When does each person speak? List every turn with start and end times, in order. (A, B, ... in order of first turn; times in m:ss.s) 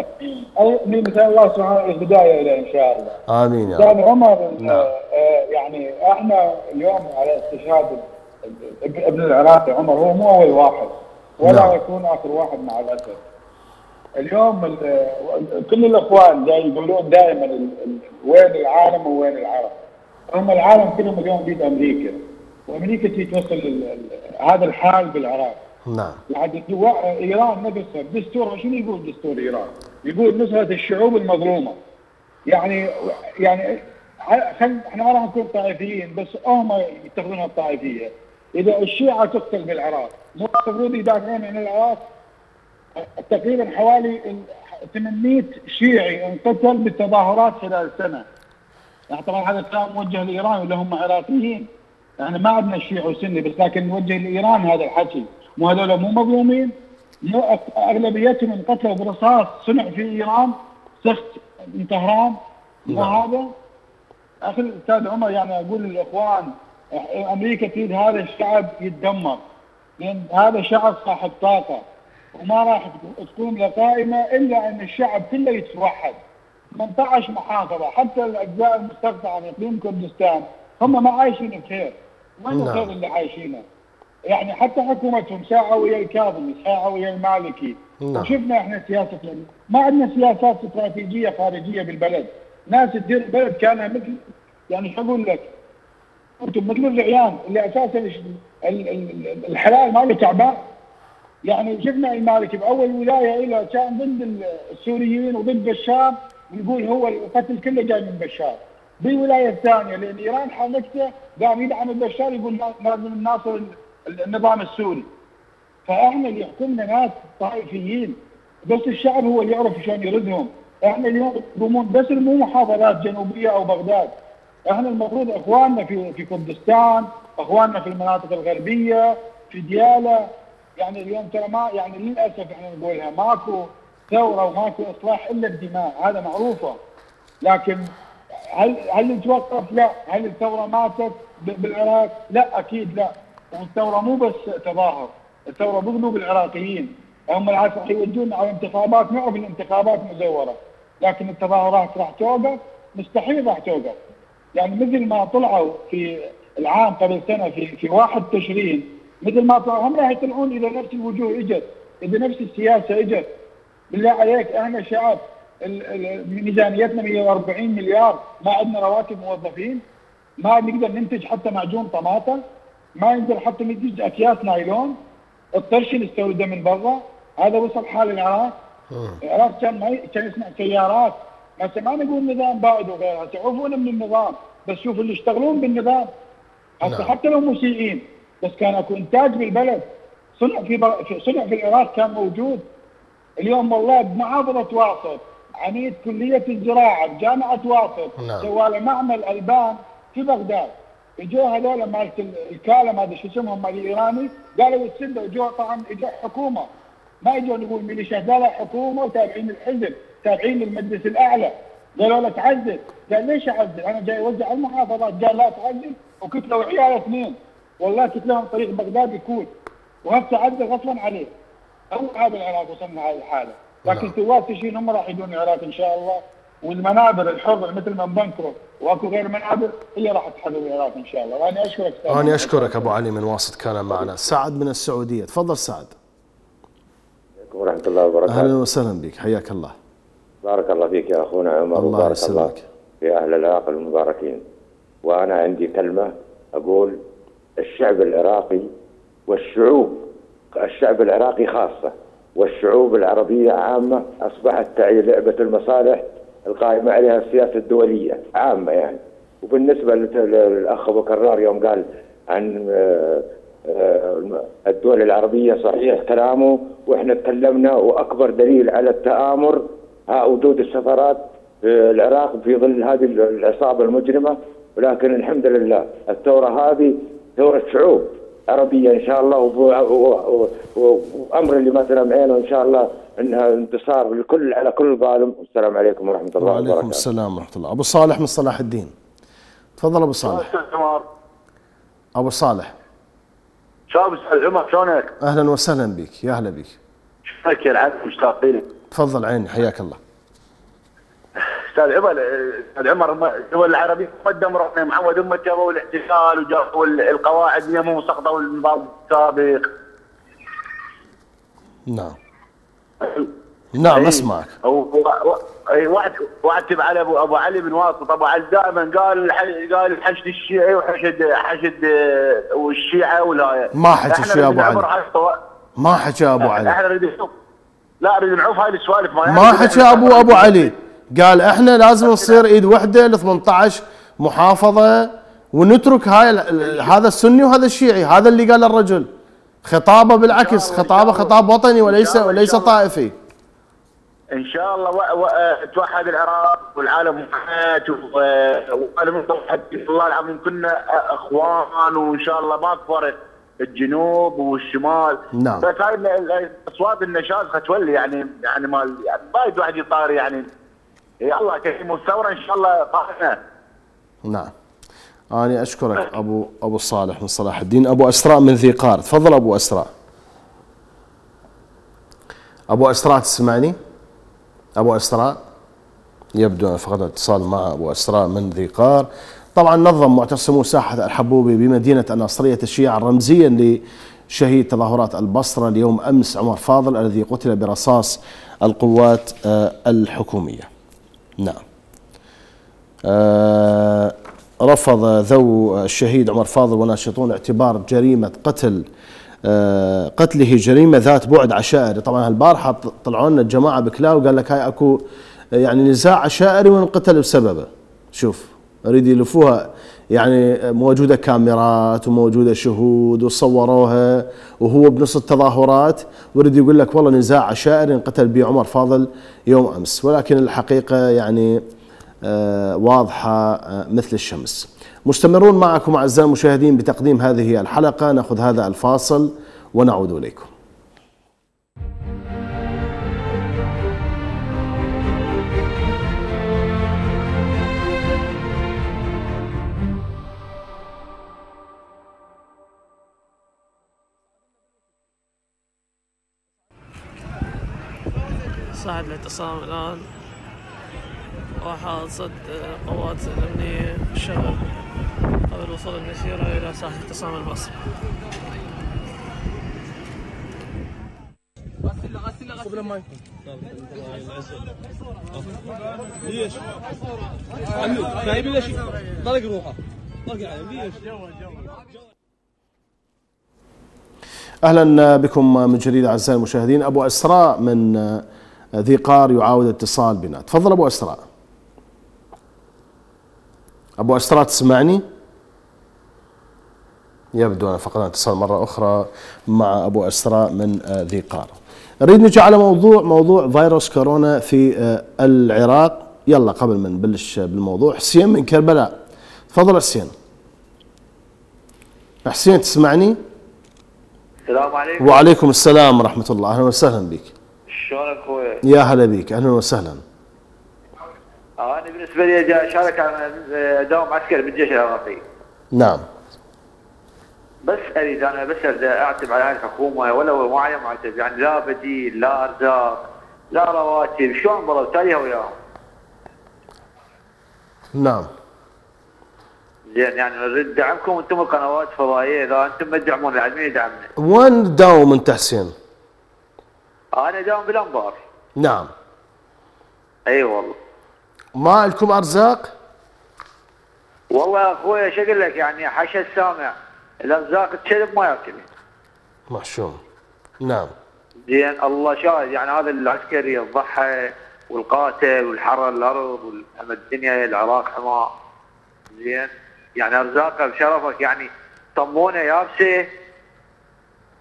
0:00.6-0:03.2 A
0:03.3-0:03.9 B
0:03.7-0:13.2 A
0:04.6-0:04.9 B
0:11.4-0:11.8 B
0:14.2-0:19.7 A
0:20.3-0:25.6 A
0:25.9-0:26.2 B
0:26.3-0:31.8 A
0:32.5-0:32.8 A
0:33.4-0:33.8 A
0:34.3-0:42.0 A
0:43.0-0:48.2 A
0:49.1-0:51.7 A
0:52.2-0:56.7 A
0:57.2-1:03.5 A
1:02.9-1:03.2 B
1:04.4-1:09.4 A
1:10.0-1:11.8 A
1:12.3-1:16.2 A
1:16.7-1:23.6 A
1:22.5-1:22.9 B
1:24.3-1:35.5 A
1:28.0-1:28.3 B
1:36.4-1:40.7 A
1:41.4-1:55.1 A
1:55.8-2:04.1 A
2:04.6-2:16.8 A
2:17.4-2:17.9 A
2:18.5-2:34.0 A
2:34.5-2:43.3 A
2:43.9-2:49.8 A
2:50.4-2:52.4 A
2:53.0-2:55.0 A
2:55.6-2:58.5 A
2:58.9-2:59.2 B
2:59.2-3:06.1 A
3:06.8-3:09.9 A
3:06.8-3:07.1 B
3:10.4-3:12.6 A
3:13.4-3:26.7 A
3:18.2-3:18.5 B
3:27.2-3:39.5 A
3:40.0-3:41.3 A
3:41.9-3:52.9 A
3:43.9-3:44.1 B
3:52.1-3:56.0 B
3:57.4-3:58.5 C
3:58.3-3:59.7 B
4:00.4-4:04.4 C
4:01.7-4:02.6 B
4:05.0-4:07.0 C
4:07.6-4:08.7 C
4:09.3-4:47.0 C
4:46.4-4:48.9 B
4:49.8-4:50.5 B
4:50.3-4:51.0 D
4:52.2-4:52.7 B
4:53.9-4:55.1 D
4:55.2-4:56.8 B
4:57.3-4:58.6 D
4:58.9-5:00.0 B
5:01.7-5:09.7 D
5:11.9-5:12.2 B
5:13.7-5:14.5 B
5:13.9-5:25.4 D
5:23.7-5:24.9 B
5:25.8-5:26.8 B
5:26.4-5:27.3 D
5:28.0-5:30.7 D
5:29.2-5:39.1 B
5:32.0-5:32.4 D
5:39.6-5:43.1 B
5:40.3-5:41.3 D
5:41.8-5:42.7 D
5:44.3-6:00.4 D
5:55.3-5:55.7 B
6:01.2-6:03.4 D
6:04.2-6:04.5 B
6:05.3-6:09.9 B
6:12.7-6:13.8 B
6:14.8-6:15.4 B
6:16.3-6:23.8 B
6:24.3-6:30.7 B
6:33.0-6:38.8 B
6:39.4-6:45.0 B
6:45.6-7:01.6 B
7:02.2-7:10.5 B
7:28.7-7:30.0 E
7:31.6-7:34.6 E
7:35.5-7:37.7 E
7:54.6-7:58.2 B
7:58.8-8:01.2 B
8:04.0-8:05.0 B
8:07.3-8:18.9 B
8:19.5-8:20.1 B
8:22.2-8:23.2 B
8:24.5-8:25.3 F
8:25.0-8:27.3 B
8:27.7-8:28.6 F
8:28.6-8:30.0 B
8:31.6-8:35.2 F
8:35.7-8:36.0 B
8:37.6-8:45.5 F
8:47.9-8:48.3 B
8:49.9-8:54.1 F
8:54.2-8:55.7 B
8:57.1-8:58.2 F
8:58.6-8:58.9 B
9:00.2-9:00.7 F
9:01.5-9:02.7 B
9:04.3-9:08.6 F
9:09.5-9:10.0 B
9:10.6-9:10.9 B
9:11.5-9:18.3 F
9:19.1-9:23.0 F